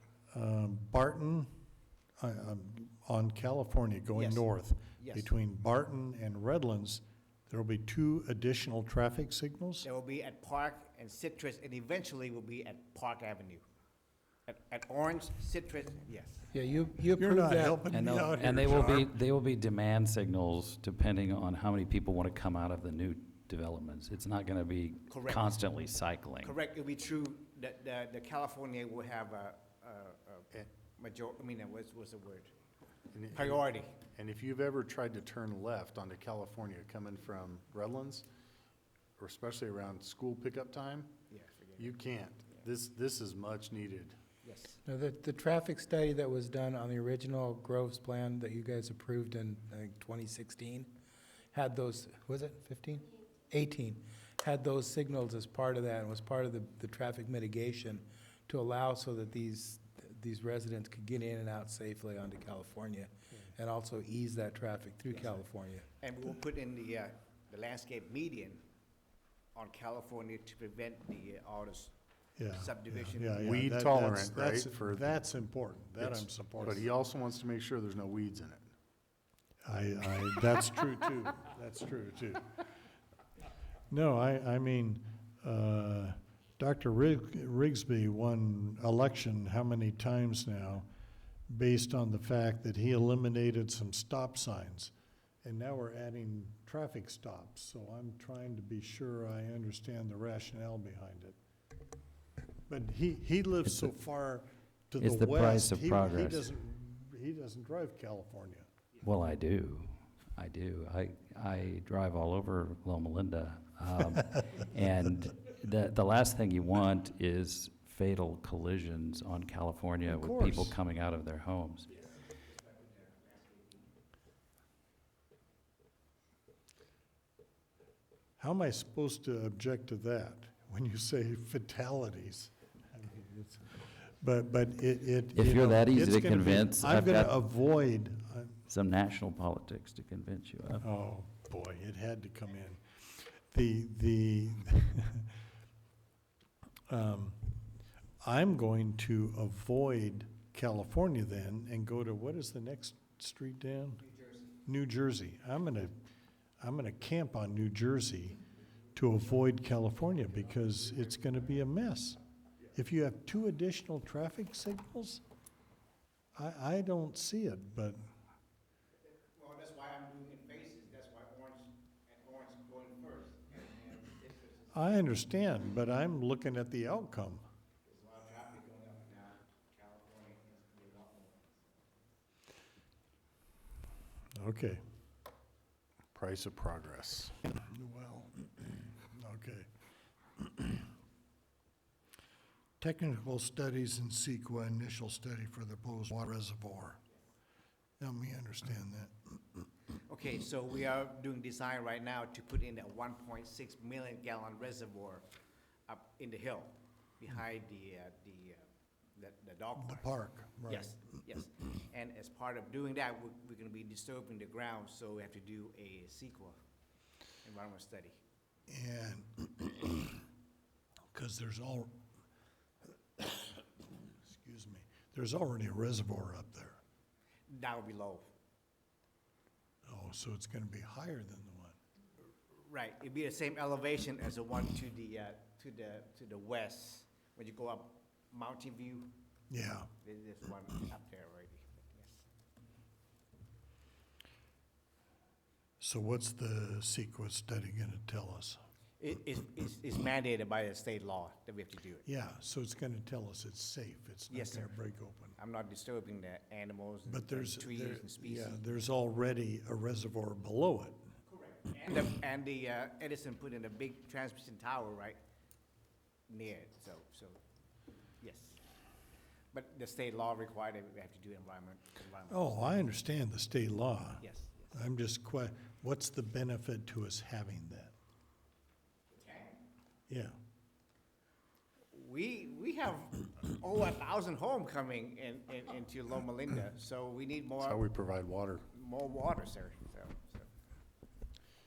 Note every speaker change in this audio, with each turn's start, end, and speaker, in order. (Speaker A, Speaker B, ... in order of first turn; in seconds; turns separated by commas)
Speaker A: 0.3-1.5, Speaker A: 2.2-9.9, Speaker B: 4.1-4.5, Speaker B: 5.0-5.3, Speaker B: 9.8-13.6, Speaker B: 14.5-16.5, Speaker C: 16.5-17.8, Speaker A: 17.2-19.1, Speaker D: 17.9-26.5, Speaker B: 25.1-25.6, Speaker B: 26.4-32.5, Speaker E: 33.1-38.2, Speaker B: 33.3-34.0, Speaker E: 39.2-41.1, Speaker B: 41.3-42.0, Speaker E: 41.8-44.1, Speaker B: 44.4-44.8, Speaker C: 44.8-50.9, Speaker C: 51.5-65.9, Speaker B: 66.0-68.6, Speaker B: 69.5-71.9, Speaker A: 72.4-76.8, Speaker B: 72.5-73.4, Speaker E: 73.4-75.1, Speaker E: 76.0-78.7, Speaker A: 79.6-82.5, Speaker A: 83.9-90.9, Speaker A: 91.5-94.9, Speaker A: 95.4-101.4, Speaker A: 102.7-108.7, Speaker D: 105.0-106.5, Speaker D: 109.0-121.9, Speaker A: 120.0-120.7, Speaker B: 122.1-123.8, Speaker A: 128.4-138.6, Speaker D: 135.3-137.3, Speaker D: 138.7-140.8, Speaker A: 140.8-145.3, Speaker A: 146.9-147.4, Speaker A: 148.2-154.0, Speaker B: 154.0-154.5, Speaker A: 154.7-155.9, Speaker A: 156.6-158.4, Speaker A: 158.9-162.2, Speaker A: 162.7-165.2, Speaker A: 166.3-168.1, Speaker B: 169.1-174.9, Speaker A: 174.7-177.4, Speaker B: 177.8-181.8, Speaker A: 184.4-184.8, Speaker E: 186.1-187.4, Speaker A: 187.4-189.7, Speaker A: 190.4-190.8, Speaker A: 192.8-197.0, Speaker A: 198.0-199.7, Speaker B: 200.1-205.2, Speaker B: 205.9-208.6, Speaker B: 209.1-210.1, Speaker A: 209.8-211.0, Speaker B: 210.7-216.6, Speaker B: 217.4-218.2, Speaker A: 218.7-220.2, Speaker A: 221.1-222.0, Speaker A: 223.2-226.8, Speaker B: 227.5-228.3, Speaker A: 229.8-231.8, Speaker B: 232.5-239.1, Speaker A: 239.5-239.9, Speaker B: 240.0-242.2, Speaker A: 245.8-248.6, Speaker B: 249.0-252.0, Speaker A: 252.0-255.3, Speaker B: 254.3-254.7, Speaker B: 255.3-258.6, Speaker A: 257.1-261.0, Speaker B: 261.3-265.2, Speaker B: 266.3-267.4, Speaker B: 268.2-268.6, Speaker B: 269.5-272.9, Speaker A: 272.3-277.9, Speaker B: 274.2-274.7, Speaker B: 279.1-279.6, Speaker A: 280.1-280.4, Speaker B: 281.9-287.8, Speaker E: 287.6-288.6, Speaker B: 288.7-290.5